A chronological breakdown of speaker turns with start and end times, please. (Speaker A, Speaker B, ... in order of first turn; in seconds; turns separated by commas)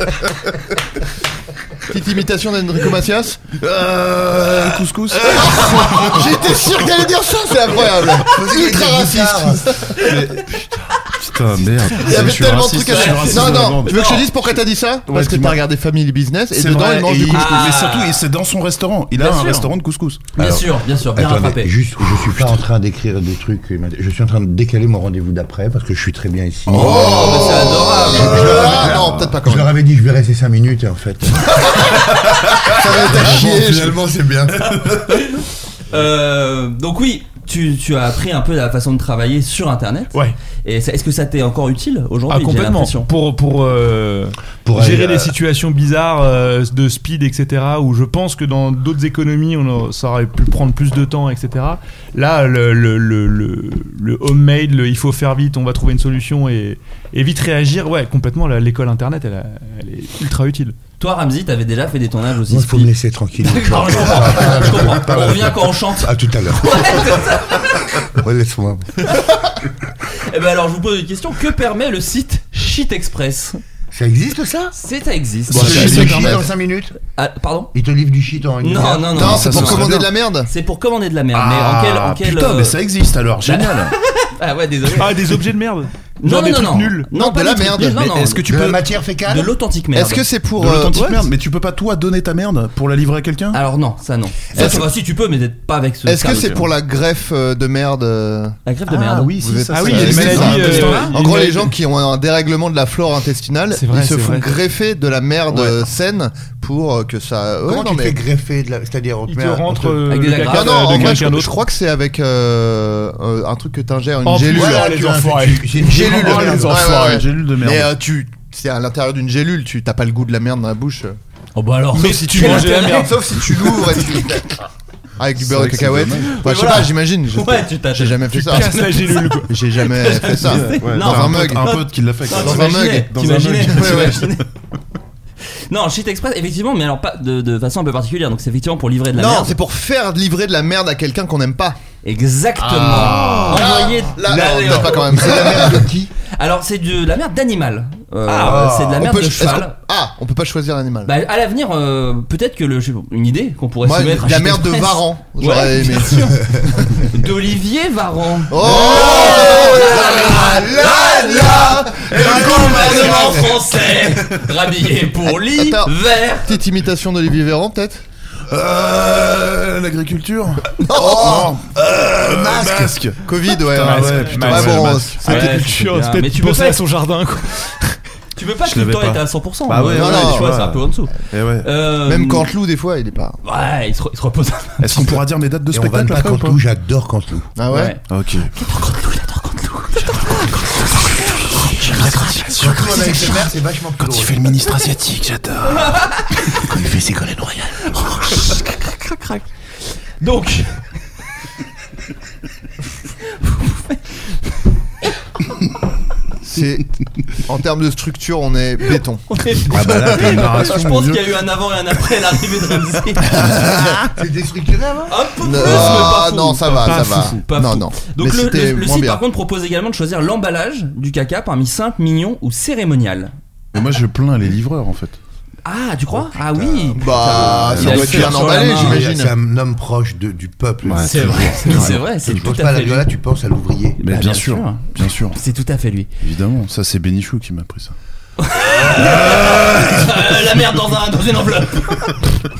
Speaker A: 1.9-3.5, Speaker B: 3.6-4.9, Speaker C: 3.7-6.3, Speaker A: 5.2-10.0, Speaker B: 8.2-9.7, Speaker C: 10.0-14.5, Speaker D: 10.0-10.4, Speaker D: 11.8-14.3, Speaker A: 12.0-17.7, Speaker C: 15.1-15.6, Speaker C: 16.5-20.7, Speaker D: 17.3-18.2, Speaker D: 19.1-19.7, Speaker D: 20.3-21.8, Speaker B: 21.1-34.7, Speaker C: 22.2-22.6, Speaker C: 26.7-27.5, Speaker A: 26.7-29.7, Speaker D: 26.8-28.9, Speaker C: 28.3-29.4, Speaker C: 32.1-33.3, Speaker A: 32.7-34.0, Speaker C: 34.5-35.2, Speaker D: 34.7-43.1, Speaker E: 42.3-60.7, Speaker B: 44.6-45.3, Speaker D: 61.0-68.1, Speaker B: 62.5-67.0, Speaker B: 68.2-68.9, Speaker D: 70.3-73.6, Speaker B: 73.9-74.7, Speaker D: 74.7-76.3, Speaker C: 75.5-76.4, Speaker A: 75.5-76.5, Speaker B: 75.5-77.0, Speaker D: 77.0-77.7, Speaker B: 77.7-79.3, Speaker D: 78.6-79.9, Speaker A: 79.1-80.5, Speaker C: 79.1-80.1, Speaker D: 80.5-82.8, Speaker C: 81.3-84.0, Speaker D: 83.4-85.2, Speaker E: 84.9-87.1, Speaker D: 86.2-88.6, Speaker A: 87.1-88.2, Speaker C: 88.0-88.9, Speaker B: 88.4-89.5, Speaker D: 89.2-90.2, Speaker A: 89.9-91.1, Speaker C: 90.5-93.6, Speaker E: 90.9-91.2, Speaker D: 93.5-96.7, Speaker A: 94.5-94.9, Speaker A: 96.0-98.5, Speaker C: 96.3-96.6, Speaker D: 98.6-101.2, Speaker C: 98.9-101.1, Speaker A: 99.4-108.2, Speaker E: 99.7-101.7, Speaker E: 103.7-104.6, Speaker C: 105.5-105.8, Speaker B: 107.6-110.0, Speaker E: 109.3-111.6, Speaker D: 110.1-111.2, Speaker A: 110.4-115.0, Speaker E: 114.2-117.2, Speaker B: 114.5-116.8, Speaker A: 115.8-121.2, Speaker C: 115.9-118.0, Speaker D: 121.5-123.2, Speaker A: 121.9-124.5, Speaker E: 122.0-123.9, Speaker D: 124.2-124.5, Speaker A: 125.2-131.8, Speaker C: 125.3-126.4, Speaker D: 126.2-134.4, Speaker E: 128.3-129.5, Speaker C: 130.3-134.3, Speaker A: 132.3-134.3, Speaker D: 135.7-139.5, Speaker A: 139.1-141.8, Speaker D: 142.0-145.4, Speaker A: 142.6-145.9, Speaker C: 142.9-143.7, Speaker B: 144.3-146.1, Speaker D: 146.3-149.8, Speaker A: 148.3-151.1, Speaker B: 148.4-149.0, Speaker D: 151.1-166.5, Speaker A: 153.8-156.2, Speaker A: 158.5-163.3, Speaker B: 158.6-163.8, Speaker A: 165.2-168.0, Speaker C: 168.5-175.2, Speaker A: 170.9-171.5, Speaker B: 170.9-173.1, Speaker A: 173.2-175.7, Speaker E: 173.8-178.0, Speaker D: 175.2-176.8, Speaker D: 178.3-182.5, Speaker C: 178.6-181.7, Speaker A: 179.8-180.7, Speaker A: 181.9-183.4, Speaker D: 183.4-185.2, Speaker C: 184.8-186.6, Speaker B: 185.7-187.5, Speaker A: 187.6-187.9, Speaker D: 187.7-188.0, Speaker C: 188.1-188.5, Speaker D: 188.5-193.4, Speaker C: 191.5-193.4, Speaker B: 192.6-194.6, Speaker C: 194.0-198.0, Speaker D: 195.7-196.6, Speaker D: 197.8-199.5, Speaker D: 200.2-200.8, Speaker D: 203.3-204.3, Speaker A: 206.4-209.3, Speaker D: 209.3-213.7, Speaker C: 209.7-211.4, Speaker A: 210.1-210.4, Speaker B: 213.4-215.2, Speaker A: 213.4-213.9, Speaker D: 215.1-223.3, Speaker A: 215.4-219.2, Speaker E: 216.9-217.3, Speaker C: 223.7-225.2, Speaker D: 225.7-229.0, Speaker B: 226.5-226.9, Speaker A: 227.0-229.3, Speaker C: 227.1-228.6, Speaker B: 228.2-234.0, Speaker C: 230.8-232.5, Speaker D: 231.0-233.1, Speaker C: 234.0-235.4, Speaker D: 234.0-236.1, Speaker C: 236.2-237.9, Speaker D: 238.4-242.3, Speaker C: 238.8-240.2